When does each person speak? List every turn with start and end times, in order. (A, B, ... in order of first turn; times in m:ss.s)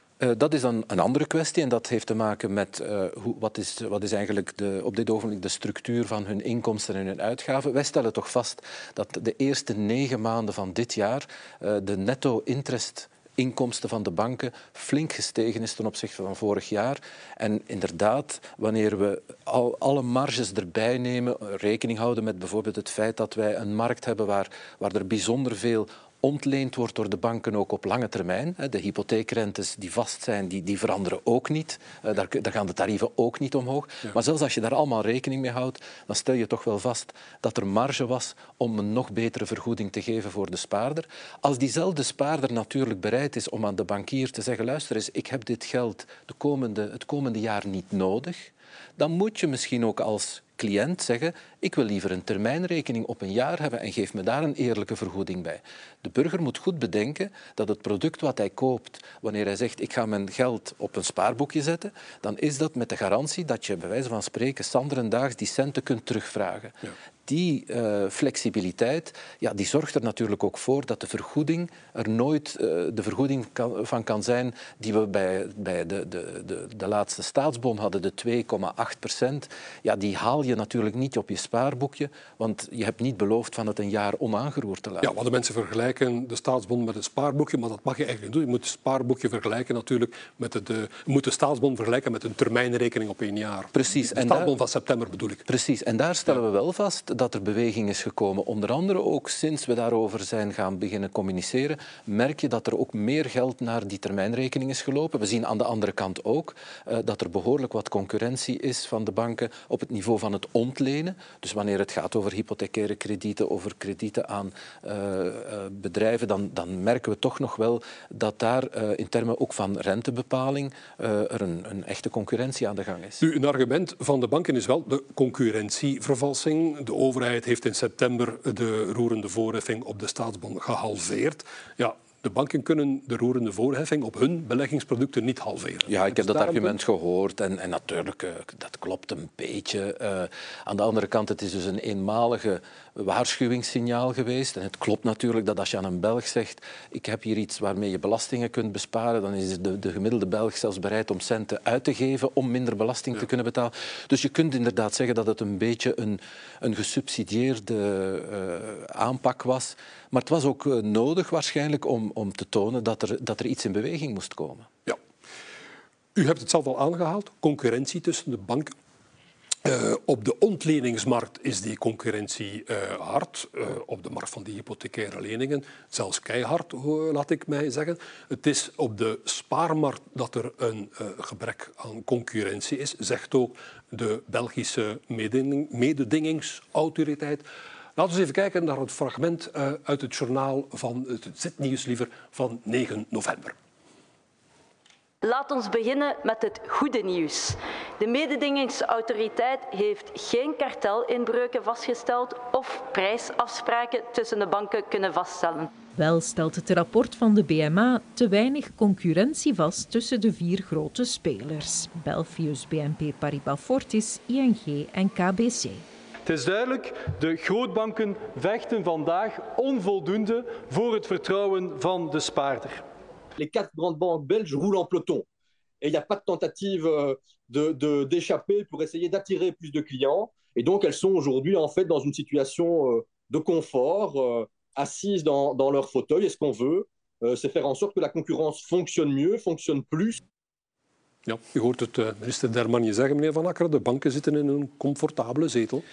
0:00.2-1:25.1 A
1:25.0-1:35.4 B
1:33.7-1:34.5 A
1:35.4-2:03.2 A
2:03.2-2:16.8 B
2:15.8-2:44.7 A
2:46.1-2:48.7 B
2:49.6-3:07.4 B
3:08.0-3:13.6 B
3:15.2-3:25.7 C
3:25.9-3:35.8 D
3:36.2-3:42.8 E
3:43.4-3:45.3 F
3:45.8-4:00.2 F
4:01.2-4:05.8 B